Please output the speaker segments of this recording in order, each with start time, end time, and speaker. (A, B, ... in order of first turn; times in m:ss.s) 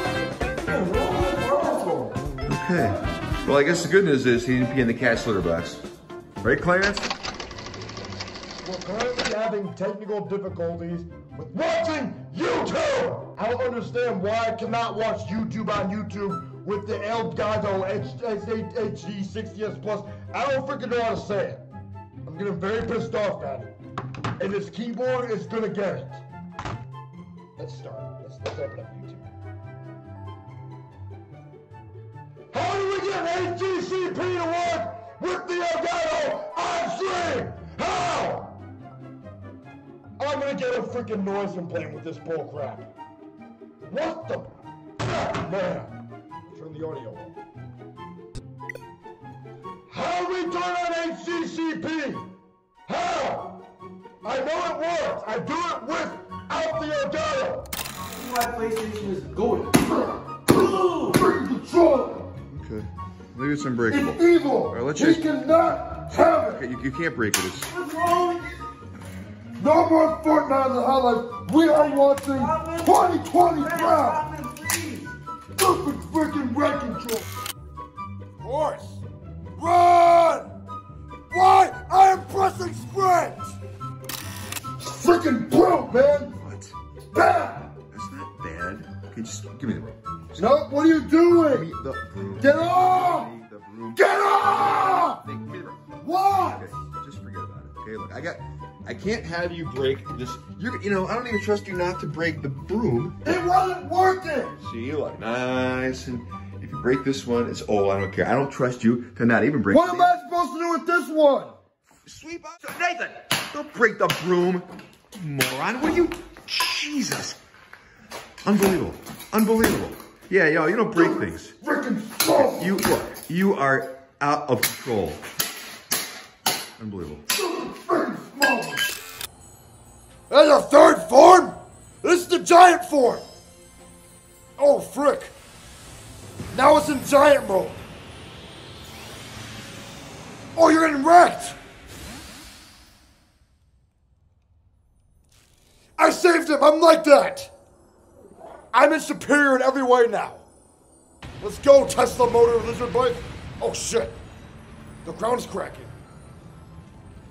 0:00.6-0:02.2 A
0:02.5-0:05.8 B
0:06.4-0:07.1 B
0:08.6-0:21.6 C
0:22.2-0:23.7 C
0:24.4-0:26.2 C
0:27.6-0:29.3 C
0:32.5-0:38.6 C
0:40.2-0:42.9 C
0:43.9-0:46.0 C
0:46.5-0:47.4 C
0:49.9-0:52.3 C
0:52.9-0:53.6 C
0:54.2-0:57.7 C
0:58.1-0:59.8 A
0:59.8-1:02.3 C
1:00.5-1:01.2 A
1:02.5-1:05.2 B
1:03.9-1:06.6 C
1:06.5-1:07.7 B
1:07.7-1:08.6 A
1:09.6-1:14.2 C
1:11.7-1:15.1 A
1:15.6-1:17.3 C
1:18.4-1:19.0 C
1:19.6-1:20.5 C
1:21.3-1:23.5 C
1:24.8-1:26.4 C
1:26.4-1:26.7 B
1:27.1-1:27.7 C
1:27.9-1:30.4 B
1:30.4-1:31.7 C
1:31.5-1:35.8 B
1:32.4-1:33.3 C
1:34.0-1:35.2 C
1:36.0-1:36.7 C
1:36.5-1:43.2 B
1:43.2-1:44.6 C
1:44.6-1:50.2 B
1:49.7-1:51.6 C
1:52.1-1:57.4 B
1:58.4-2:01.6 B
2:00.9-2:02.8 C
2:02.4-2:05.2 B
2:06.8-2:07.2 B
2:07.3-2:08.9 C
2:10.3-2:13.2 C
2:14.6-2:15.3 C
2:16.5-2:17.8 C
2:20.6-2:21.6 C
2:26.0-2:27.5 C
2:28.7-2:30.4 C
2:31.4-2:34.2 C
2:35.0-2:35.9 C